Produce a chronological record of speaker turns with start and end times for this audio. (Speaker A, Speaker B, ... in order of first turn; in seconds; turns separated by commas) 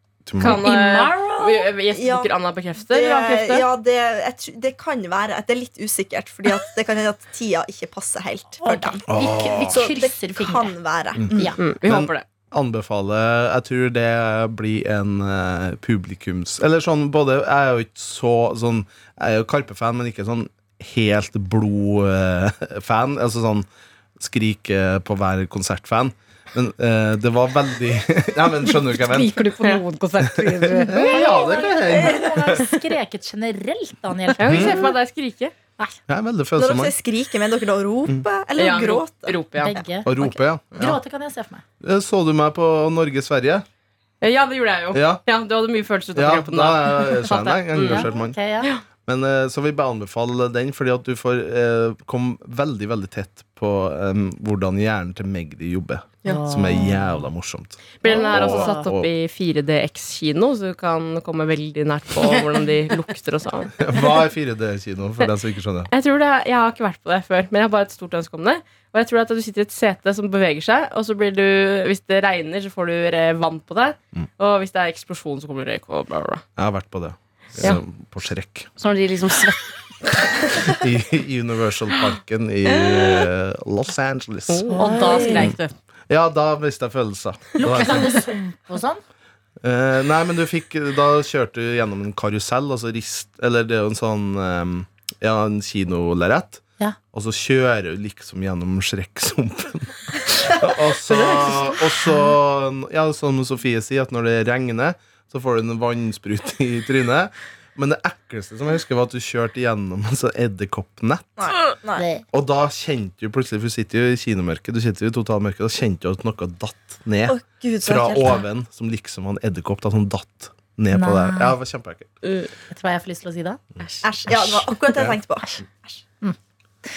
Speaker A: 0.2-0.6, Speaker B: 0.4-3.7, Speaker C: 0.5-1.7, Speaker D: 1.9-9.0, Speaker E: 8.6-10.7, Speaker A: 9.1-9.9, Speaker D: 9.7-11.6, Speaker A: 11.2-29.4, Speaker E: 11.3-11.6, Speaker B: 11.6-12.2, Speaker C: 28.9-31.1, Speaker A: 30.2-32.6, Speaker E: 31.1-34.9, Speaker B: 34.4-35.5, Speaker A: 34.4-34.8, Speaker A: 36.1-36.9, Speaker D: 36.6-39.4, Speaker B: 38.5-39.7, Speaker E: 39.6-41.6, Speaker A: 40.0-41.0, Speaker A: 41.8-43.6, Speaker B: 44.2-48.1, Speaker A: 44.9-45.2, Speaker A: 46.1-48.4, Speaker E: 47.8-48.7, Speaker A: 49.0-59.1, Speaker E: 56.2-57.2, Speaker B: 58.0-63.7, Speaker E: 58.0-58.8, Speaker A: 63.8-65.9, Speaker B: 65.9-76.4, Speaker A: 76.6-78.7, Speaker C: 78.8-79.7, Speaker A: 80.7-84.8, Speaker B: 84.5-85.3, Speaker E: 84.7-85.5, Speaker C: 84.7-85.7, Speaker A: 86.1-88.0, Speaker E: 87.6-89.0, Speaker C: 87.8-88.2, Speaker A: 89.6-111.3, Speaker D: 101.1-101.8, Speaker D: 111.4-112.0, Speaker E: 112.0-112.2, Speaker A: 112.3-122.2, Speaker D: 117.3-118.4, Speaker E: 120.9-121.6, Speaker B: 122.2-122.5, Speaker E: 122.7-123.6, Speaker D: 124.0-126.0, Speaker A: 124.3-125.2